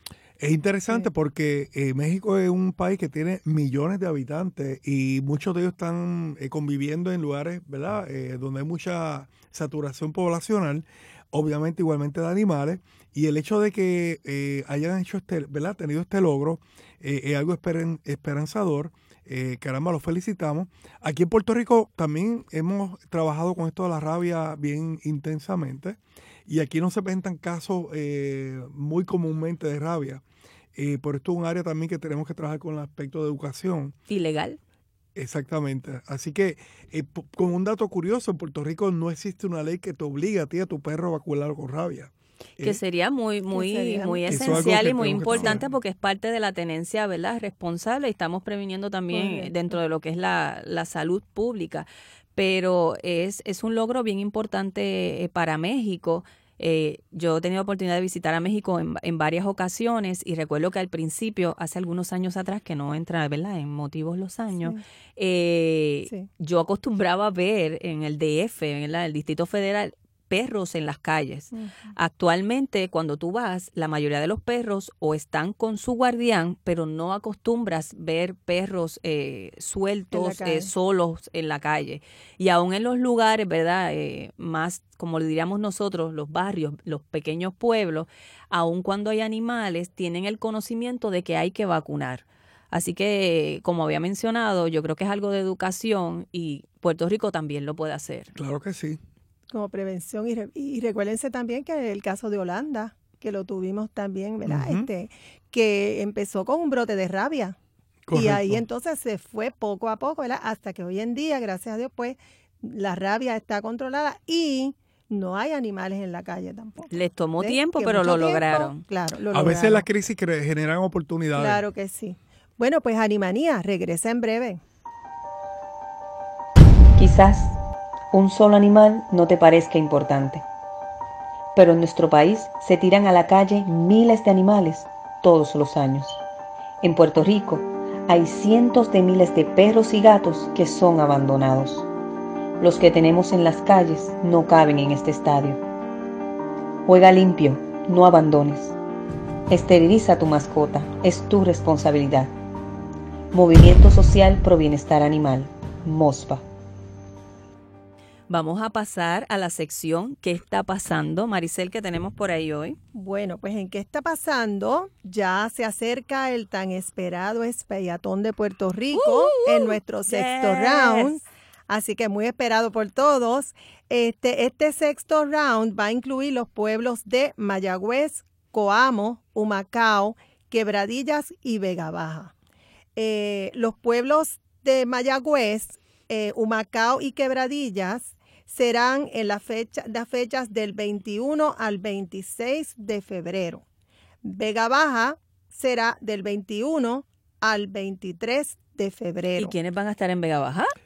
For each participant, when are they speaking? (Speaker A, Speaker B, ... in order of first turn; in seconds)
Speaker A: 0.4-30.2, 30.8-34.0, 35.2-42.8, 44.3-45.7, 98.4-99.0, 104.5-104.9, 108.1-108.6, 119.3-121.6
Speaker B: 34.1-34.6, 42.6-98.3, 116.9-118.8, 158.3-162.8, 168.9-171.2, 199.3-200.7
Speaker C: 43.5-45.6, 49.1-49.5, 80.1-80.7, 99.5-107.6, 108.1-119.9, 121.3-124.6, 162.9-182.3, 183.0-193.6, 194.2-199.5
Speaker D: 127.0-127.6, 128.1-130.4, 131.6-136.2, 136.8-141.9, 142.6-145.6, 146.9-148.8, 149.5-152.3, 153.3-156.5